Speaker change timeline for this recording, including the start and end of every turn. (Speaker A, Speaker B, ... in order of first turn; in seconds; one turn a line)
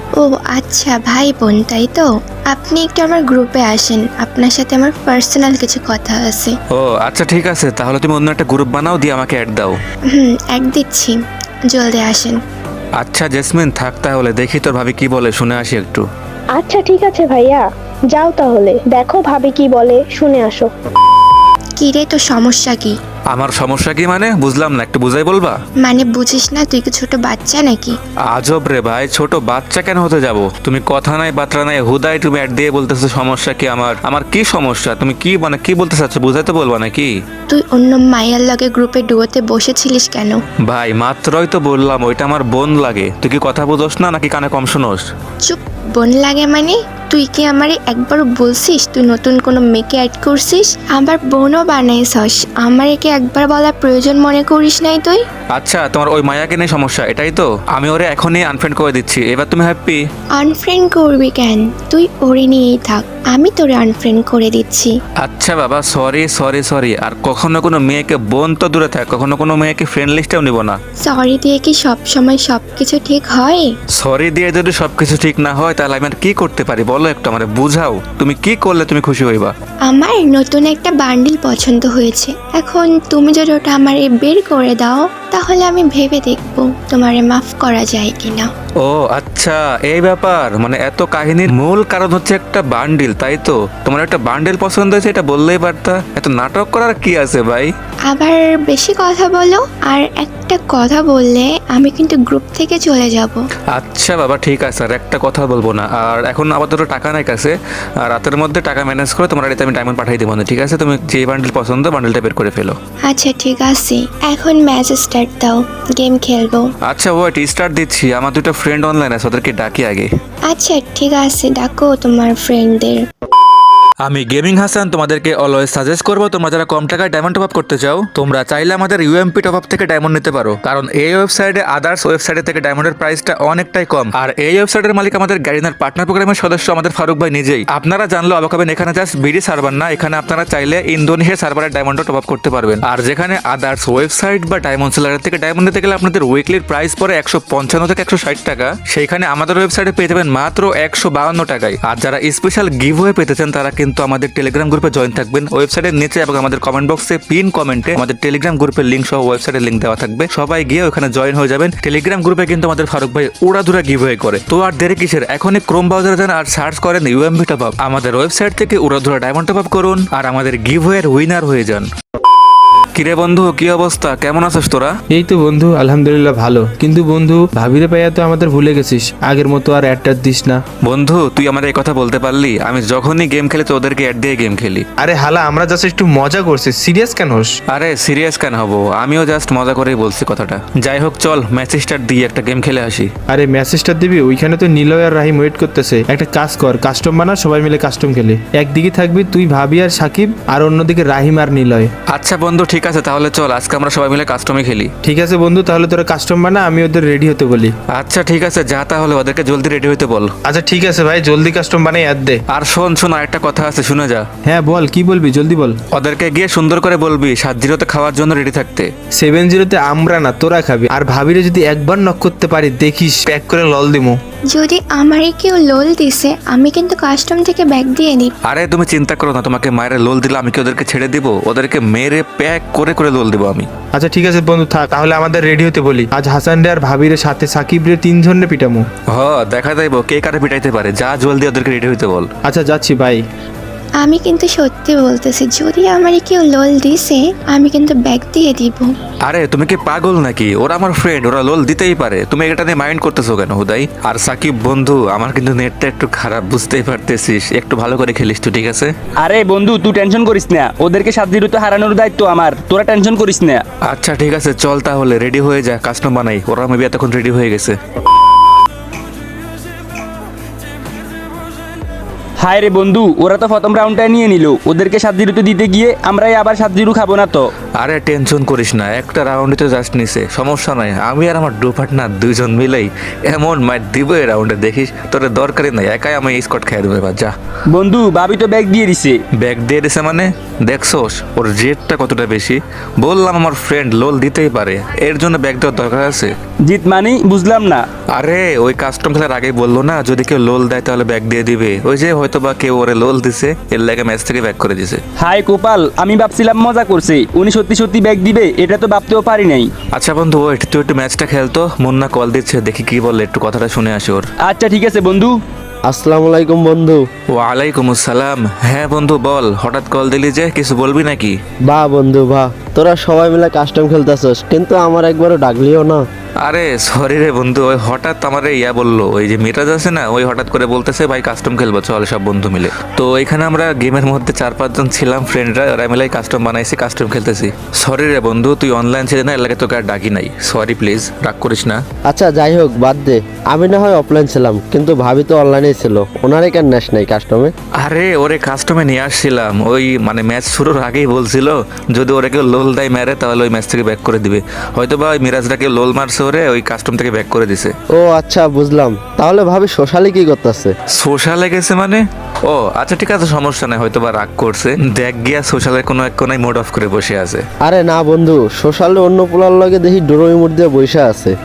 Speaker A: 0.2-6.5
Speaker B: 6.7-9.8
Speaker A: 10.1-11.2
Speaker A: 11.7-12.4
Speaker B: 13.0-16.1
Speaker C: 16.5-20.7
Speaker A: 21.8-23.0
Speaker B: 23.3-25.6
Speaker A: 25.8-27.9
Speaker B: 28.3-37.1
Speaker A: 37.5-40.4
Speaker B: 40.6-45.0
Speaker A: 45.4-55.2
Speaker B: 55.5-60.0
Speaker A: 60.3-64.9
Speaker B: 65.2-70.8
Speaker A: 71.0-73.7
Speaker B: 74.0-79.5
Speaker A: 79.8-88.5
Speaker B: 88.8-97.7
Speaker A: 98.1-103.4
Speaker B: 103.7-112.8
Speaker A: 113.1-116.7
Speaker B: 116.8-120.1
Speaker A: 120.5-123.0
Speaker B: 124.0-171.9
Speaker B: 172.9-174.9
Speaker D: 175.1-180.6
Speaker B: 180.8-184.8
Speaker D: 185.0-187.5
Speaker B: 187.7-193.1
Speaker D: 193.4-201.9
Speaker B: 202.1-204.9
Speaker D: 205.1-207.7
Speaker B: 207.9-210.3
Speaker D: 210.5-212.4
Speaker B: 212.5-214.2
Speaker D: 214.4-215.8
Speaker B: 215.9-218.9
Speaker D: 219.2-224.2
Speaker A: 224.5-228.3
Speaker B: 228.5-233.7
Speaker D: 234.0-238.8
Speaker B: 239.1-242.3
Speaker D: 242.4-243.2
Speaker A: 244.0-248.9
Speaker B: 249.2-258.9
Speaker E: 259.2-263.6
Speaker B: 263.8-267.8
Speaker E: 272.4-277.4
Speaker B: 277.8-287.3
Speaker E: 287.7-289.2
Speaker B: 289.4-296.3
Speaker E: 296.6-297.9
Speaker B: 298.1-305.0
Speaker E: 305.2-309.7
Speaker B: 309.9-314.2
Speaker E: 314.4-315.3
Speaker F: 315.9-317.0
Speaker B: 317.3-321.4
Speaker F: 321.6-326.0
Speaker B: 326.4-341.8
Speaker F: 342.1-347.5
Speaker B: 347.8-357.7
Speaker F: 357.9-360.7
Speaker B: 360.9-367.4
Speaker F: 367.6-371.3